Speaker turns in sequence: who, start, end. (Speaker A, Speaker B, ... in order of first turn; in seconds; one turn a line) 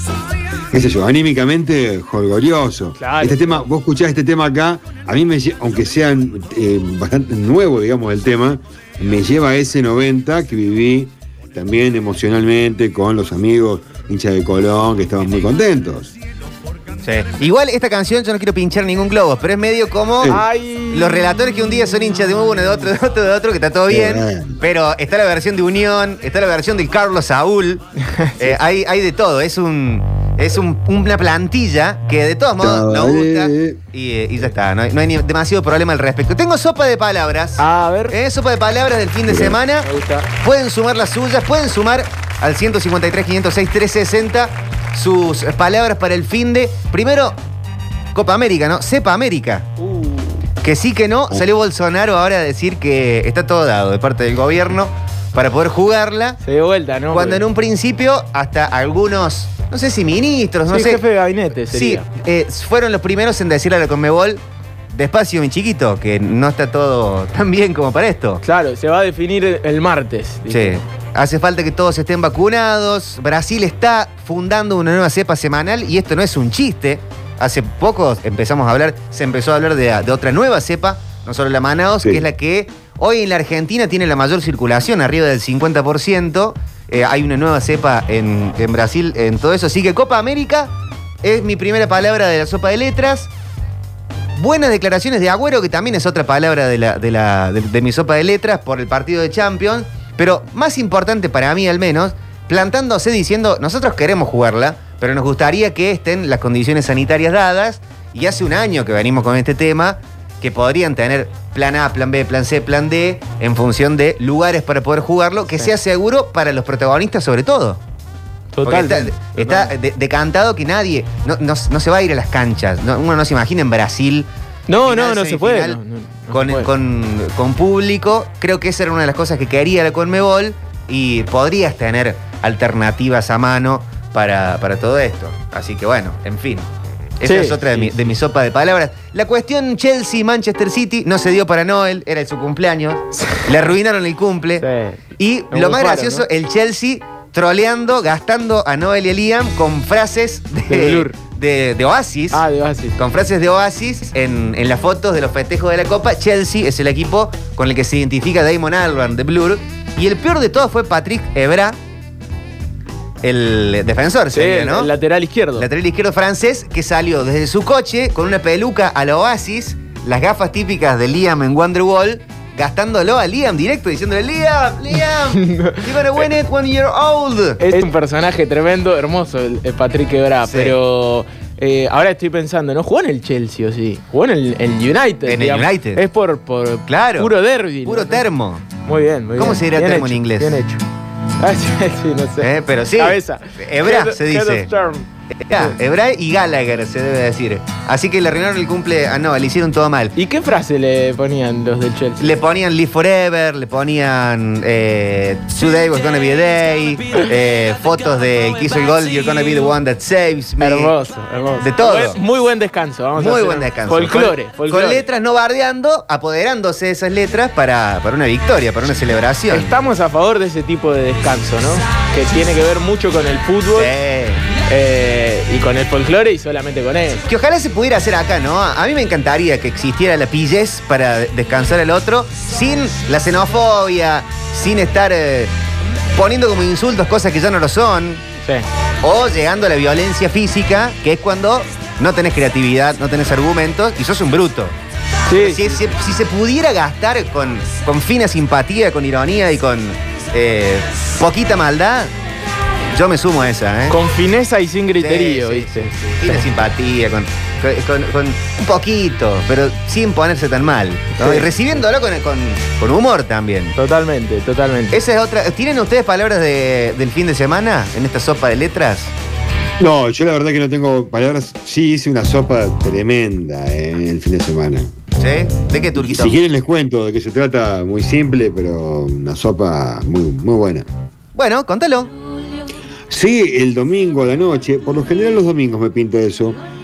Speaker A: 0.7-16.1
Speaker B: 3.0-3.6
Speaker C: 17.0-20.4
Speaker B: 20.3-21.2
Speaker C: 20.9-27.8
Speaker A: 23.9-24.6
Speaker B: 28.0-28.5
Speaker C: 28.4-39.9
Speaker A: 32.6-33.8
Speaker B: 37.6-38.1
Speaker A: 39.3-39.6
Speaker B: 39.8-40.3
Speaker C: 40.4-47.4
Speaker C: 48.1-49.6
Speaker B: 49.8-50.4
Speaker C: 50.6-56.4
Speaker B: 56.4-57.4
Speaker C: 57.1-61.0
Speaker B: 60.7-62.0
Speaker C: 61.7-68.4
Speaker B: 68.4-70.8
Speaker C: 70.5-90.7
Speaker C: 91.2-93.3
Speaker C: 94.4-117.8
Speaker B: 118.5-119.7
Speaker C: 118.6-124.3
Speaker B: 124.7-126.7
Speaker C: 124.8-125.8
Speaker C: 126.3-136.7
Speaker C: 137.2-144.6
Speaker B: 137.2-138.1
Speaker B: 144.6-145.0
Speaker C: 145.2-152.4
Speaker B: 145.5-146.2
Speaker B: 150.7-151.2
Speaker B: 152.3-153.0
Speaker C: 153.0-161.8
Speaker C: 163.2-164.9
Speaker B: 164.3-165.7
Speaker C: 165.6-177.6
Speaker B: 175.3-176.3
Speaker B: 177.6-188.2
Speaker C: 180.5-180.7
Speaker C: 185.3-186.0
Speaker C: 186.9-187.3
Speaker C: 187.8-188.7
Speaker B: 188.8-190.8
Speaker C: 189.3-190.6
Speaker B: 191.4-195.7
Speaker C: 192.4-194.7
Speaker C: 195.5-200.1
Speaker B: 200.2-202.3
Speaker C: 202.2-210.9
Speaker B: 210.6-215.0
Speaker C: 211.6-212.2
Speaker C: 213.2-219.7
Speaker B: 219.5-223.9
Speaker C: 223.7-224.4
Speaker B: 224.7-227.2
Speaker C: 227.2-235.5
Speaker C: 236.1-238.2
Speaker C: 239.0-244.7
Speaker B: 245.3-245.6
Speaker C: 245.4-252.1
Speaker C: 252.9-253.9
Speaker B: 253.9-256.4
Speaker C: 255.0-263.7
Speaker B: 261.1-261.5
Speaker B: 263.7-264.9
Speaker C: 264.9-269.1
Speaker A: 269.8-274.9
Speaker C: 275.2-276.4
Speaker A: 276.0-280.9
Speaker C: 281.3-282.1
Speaker A: 283.1-286.6